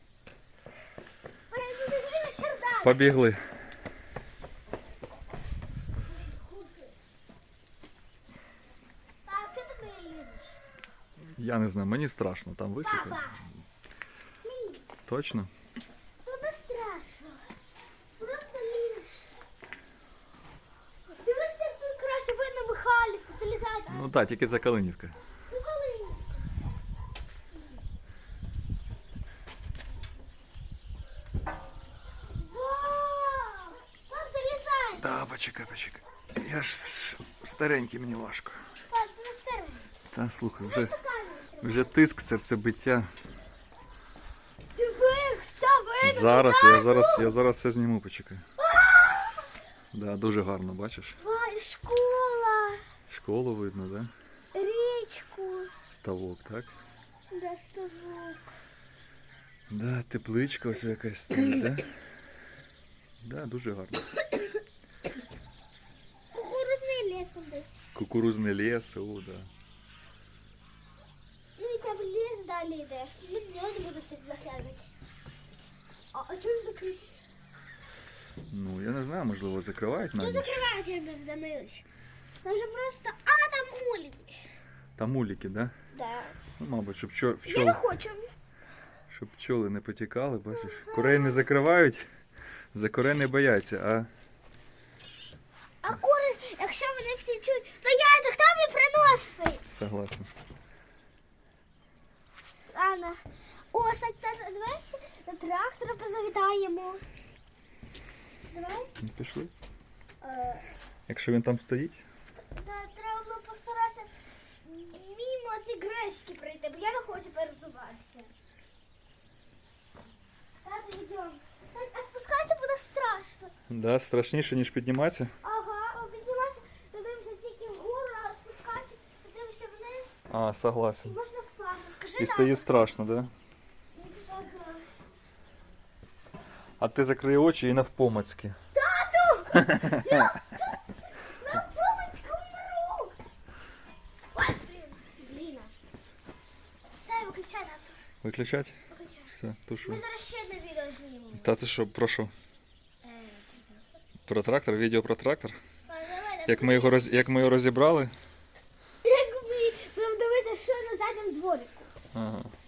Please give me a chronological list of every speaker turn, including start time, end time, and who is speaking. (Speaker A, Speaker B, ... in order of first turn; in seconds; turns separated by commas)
Speaker A: 1.5-3.2, Speaker B: 2.8-3.5, Speaker A: 6.0-6.9, Speaker A: 9.2-10.6, Speaker B: 11.4-13.2, Speaker A: 12.8-13.5, Speaker A: 14.4-14.8, Speaker B: 15.1-15.5, Speaker A: 16.2-17.5, Speaker A: 18.2-19.3, Speaker A: 21.2-24.1, Speaker B: 23.9-25.2, Speaker A: 25.5-26.4, Speaker A: 32.4-35.1, Speaker B: 35.0-38.6, Speaker A: 38.9-39.9, Speaker B: 40.1-41.0, Speaker A: 40.6-41.9, Speaker B: 41.6-43.1, Speaker A: 44.8-47.3, Speaker B: 46.0-48.4, Speaker A: 48.6-49.4, Speaker B: 49.9-51.2, Speaker A: 51.2-52.8, Speaker B: 53.1-54.1, Speaker A: 54.5-55.7, Speaker B: 55.9-56.7, Speaker A: 57.3-58.5, Speaker B: 59.7-61.9, Speaker B: 63.2-64.0, Speaker A: 66.3-67.8, Speaker B: 68.0-69.5, Speaker A: 71.6-74.9, Speaker A: 76.1-77.2, Speaker B: 78.5-80.7, Speaker A: 80.2-81.8, Speaker A: 82.4-84.4, Speaker B: 85.0-85.7, Speaker A: 85.9-86.4, Speaker B: 86.6-87.8, Speaker A: 87.5-88.3, Speaker B: 89.1-92.1, Speaker A: 90.5-91.5, Speaker B: 92.7-94.1, Speaker A: 95.8-99.7, Speaker B: 99.7-100.3, Speaker A: 102.7-103.2, Speaker A: 103.7-107.0, Speaker A: 108.5-108.9, Speaker B: 109.0-109.5, Speaker A: 110.2-110.7, Speaker B: 111.1-112.0, Speaker A: 112.5-114.1, Speaker A: 114.6-118.3, Speaker A: 120.6-123.5, Speaker B: 123.7-125.3, Speaker A: 125.4-130.2, Speaker B: 130.3-131.2, Speaker A: 131.0-132.8, Speaker B: 132.2-133.3, Speaker A: 133.9-134.9, Speaker B: 136.8-138.6, Speaker A: 138.7-143.2, Speaker B: 139.6-140.1, Speaker A: 144.3-145.7, Speaker A: 146.9-148.0, Speaker B: 148.2-148.8, Speaker A: 148.9-151.5, Speaker B: 149.3-150.0, Speaker B: 151.4-152.3, Speaker A: 153.0-153.9, Speaker B: 154.3-155.6, Speaker A: 155.9-157.1, Speaker B: 156.5-158.1, Speaker A: 159.0-161.9, Speaker B: 162.1-162.5